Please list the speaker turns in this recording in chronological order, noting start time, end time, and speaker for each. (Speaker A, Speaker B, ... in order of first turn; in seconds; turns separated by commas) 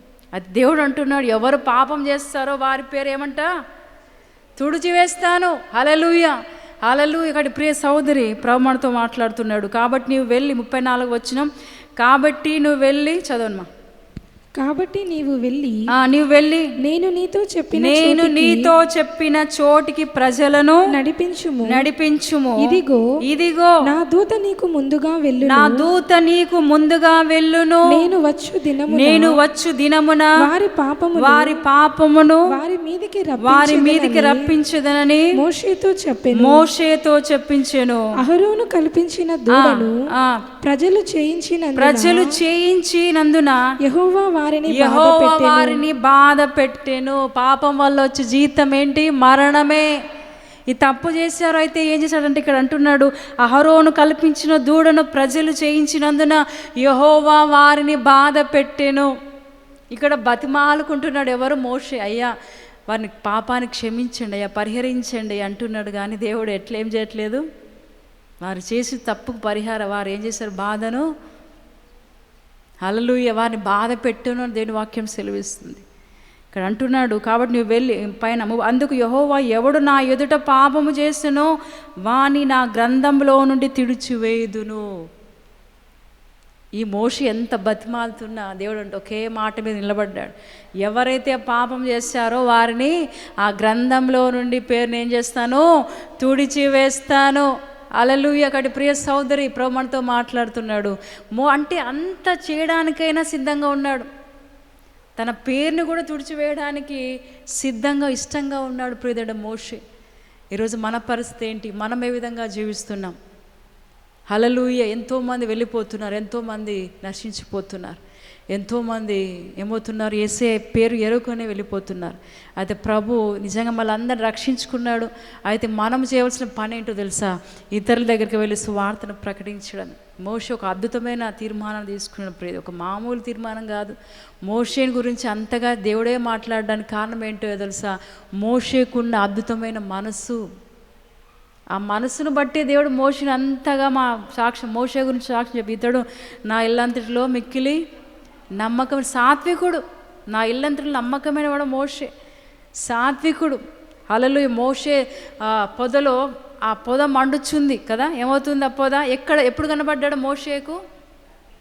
Speaker A: 0.3-3.5, Speaker A: 4.6-13.7, Speaker B: 14.6-15.8, Speaker A: 15.9-16.7, Speaker B: 16.8-18.7, Speaker A: 17.8-20.9, Speaker B: 20.9-21.9, Speaker A: 21.7-23.8, Speaker B: 22.6-23.1, Speaker B: 23.8-25.8, Speaker A: 25.4-28.1, Speaker B: 27.9-29.4, Speaker A: 28.9-30.5, Speaker B: 30.4-31.6, Speaker A: 31.2-32.5, Speaker B: 32.5-34.5, Speaker A: 33.4-35.4, Speaker B: 35.3-36.6, Speaker A: 36.3-38.1, Speaker B: 38.2-40.0, Speaker A: 39.5-40.4, Speaker B: 40.6-42.4, Speaker A: 41.8-43.7, Speaker B: 43.8-45.8, Speaker A: 44.7-49.9, Speaker A: 50.7-59.1, Speaker A: 59.9-62.3, Speaker A: 62.9-67.4, Speaker A: 68.4-71.0, Speaker A: 72.8-75.8, Speaker A: 76.5-81.5, Speaker A: 82.0-84.8, Speaker A: 86.8-95.7, Speaker A: 96.2-104.1, Speaker A: 105.2-107.0, Speaker A: 107.6-109.8, Speaker A: 110.5-113.2, Speaker A: 114.3-118.0, Speaker A: 118.5-133.9, Speaker A: 134.5-140.4, Speaker A: 141.7-147.8, Speaker A: 148.6-152.1, Speaker A: 152.8-160.8